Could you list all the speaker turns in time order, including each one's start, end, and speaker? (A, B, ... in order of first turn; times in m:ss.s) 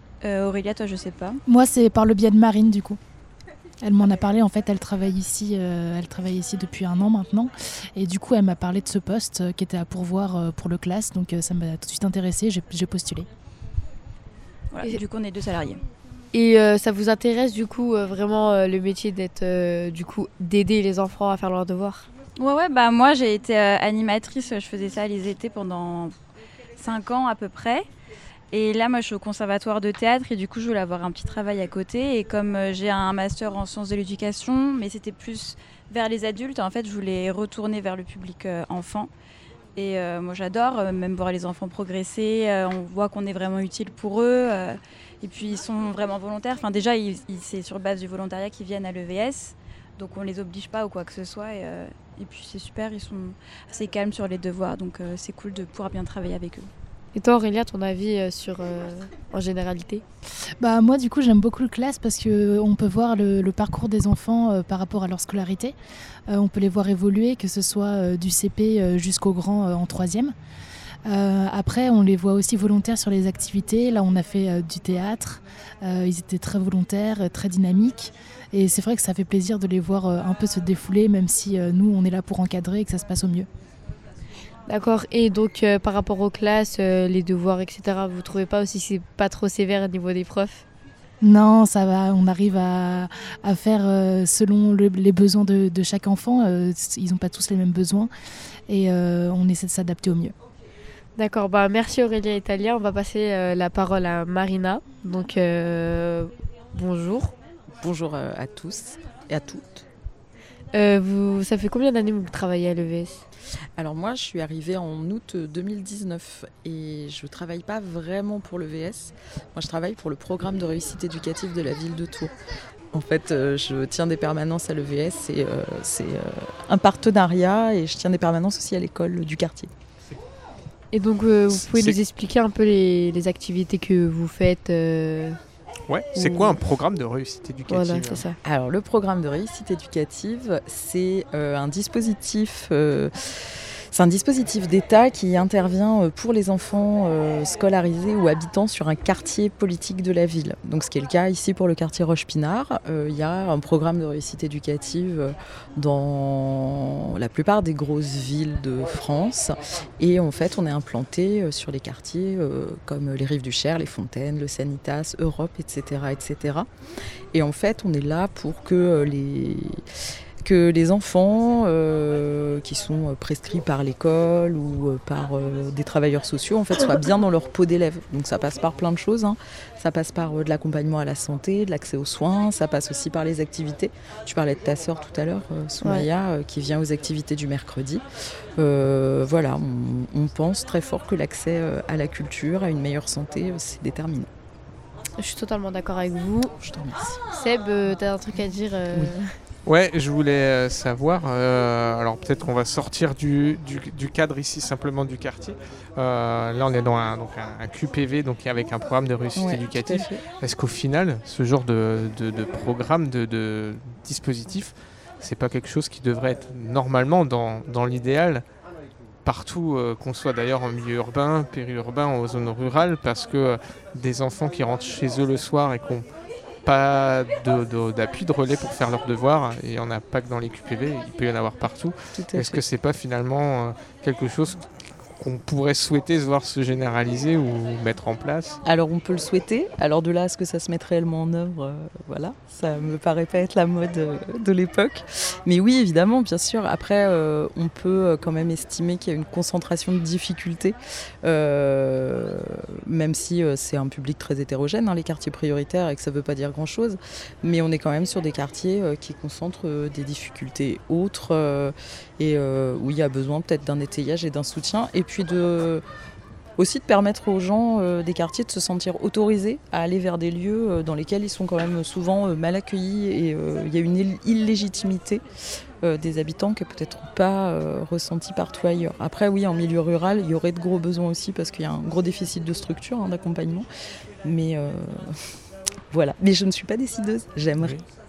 0:00.2-0:01.4 A
0:01.5-0:03.0 B
0:03.8-0:13.3 B
0:14.7-0:15.8 A
0:16.3-0:22.1 C
0:22.4-0:26.1 A
0:26.8-0:27.9 A
0:28.5-0:39.1 A
0:39.8-0:56.7 A
0:57.2-1:00.0 C
1:00.6-1:05.8 B
1:06.3-1:10.4 B
1:11.1-1:23.5 B
1:24.7-1:30.6 C
1:31.2-1:38.1 B
1:38.7-1:40.3 B
1:41.2-1:47.4 C
1:47.8-1:49.9 D
1:50.7-1:53.2 C
1:53.8-2:02.3 D
2:02.9-2:09.7 D
2:10.9-2:15.4 C
2:11.6-2:12.0 E
2:15.9-2:18.2 E
2:16.2-2:16.6 C
2:17.7-2:18.4 C
2:18.4-2:46.7 D
2:47.3-2:49.8 D
2:50.4-3:08.0 D
3:08.6-3:14.3 D
3:15.2-3:16.6 C
3:16.6-3:17.2 D
3:17.3-3:19.3 C
3:19.7-3:38.4 E
3:29.4-3:30.2 D
3:39.2-3:46.1 E
3:46.6-3:58.6 E
3:52.2-3:52.6 D
3:58.6-4:25.8 D
4:26.6-4:35.2 D
4:35.8-4:43.7 D
4:44.2-4:45.4 D
4:45.9-4:47.8 D
4:47.6-4:47.8 E